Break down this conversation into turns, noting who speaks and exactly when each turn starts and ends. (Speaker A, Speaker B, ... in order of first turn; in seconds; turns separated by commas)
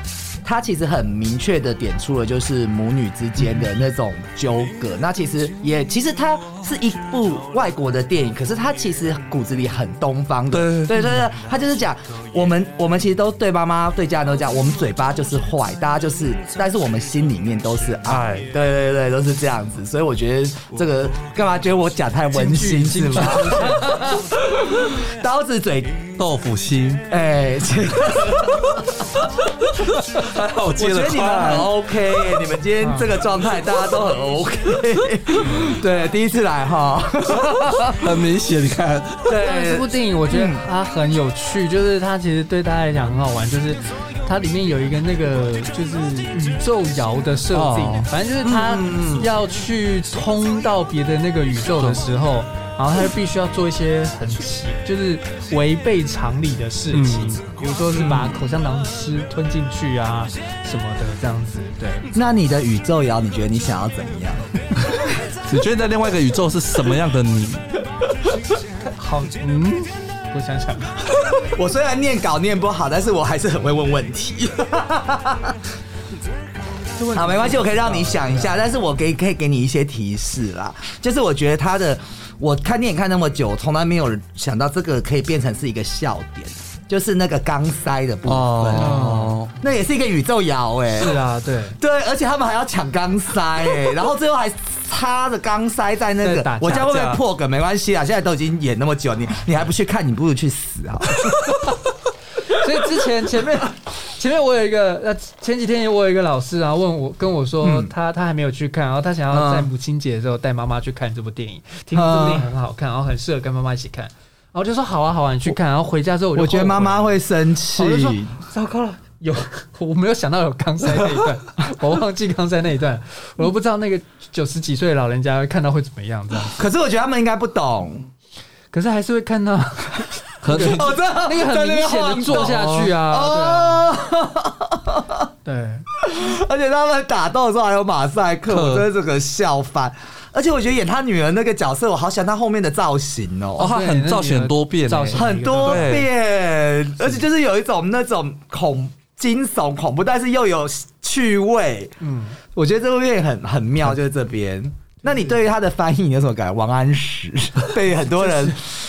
Speaker A: 0.4-26.0, Speaker B: 10.5-11.2, Speaker B: 18.1-18.5, Speaker C: 22.3-24.2, Speaker B: 26.2-27.1, Speaker A: 27.1-28.9, Speaker B: 30.1-31.7, Speaker A: 30.8-38.0, Speaker C: 32.8-33.2, Speaker B: 38.0-39.4, Speaker A: 39.3-40.6, Speaker C: 39.3-62.1, Speaker B: 47.5-48.1, Speaker A: 48.4-49.3, Speaker B: 51.8-52.1, Speaker B: 56.9-57.4, Speaker A: 57.9-58.3, Speaker A: 62.1-64.5, Speaker B: 65.5-67.6, Speaker C: 68.8-71.3, Speaker A: 71.5-75.5, Speaker C: 77.0-78.7, Speaker A: 77.1-91.2, Speaker B: 88.3-89.5, Speaker C: 88.8-89.4, Speaker C: 90.9-91.8, Speaker A: 91.8-101.4, Speaker C: 96.2-97.2, Speaker C: 102.5-117.2, Speaker A: 107.6-107.9, Speaker A: 109.3-109.7, Speaker A: 111.9-112.5, Speaker A: 116.3-118.4, Speaker C: 117.8-126.6, Speaker A: 126.6-128.1, Speaker C: 128.7-133.9, Speaker B: 130.4-131.0, Speaker A: 130.5-135.3, Speaker C: 135.4-135.9, Speaker A: 136.0-143.7, Speaker B: 138.5-138.9, Speaker B: 143.6-146.1, Speaker C: 143.6-145.9, Speaker A: 145.1-152.0, Speaker C: 152.0-152.4, Speaker A: 152.5-158.6, Speaker C: 155.1-155.4, Speaker C: 158.0-158.7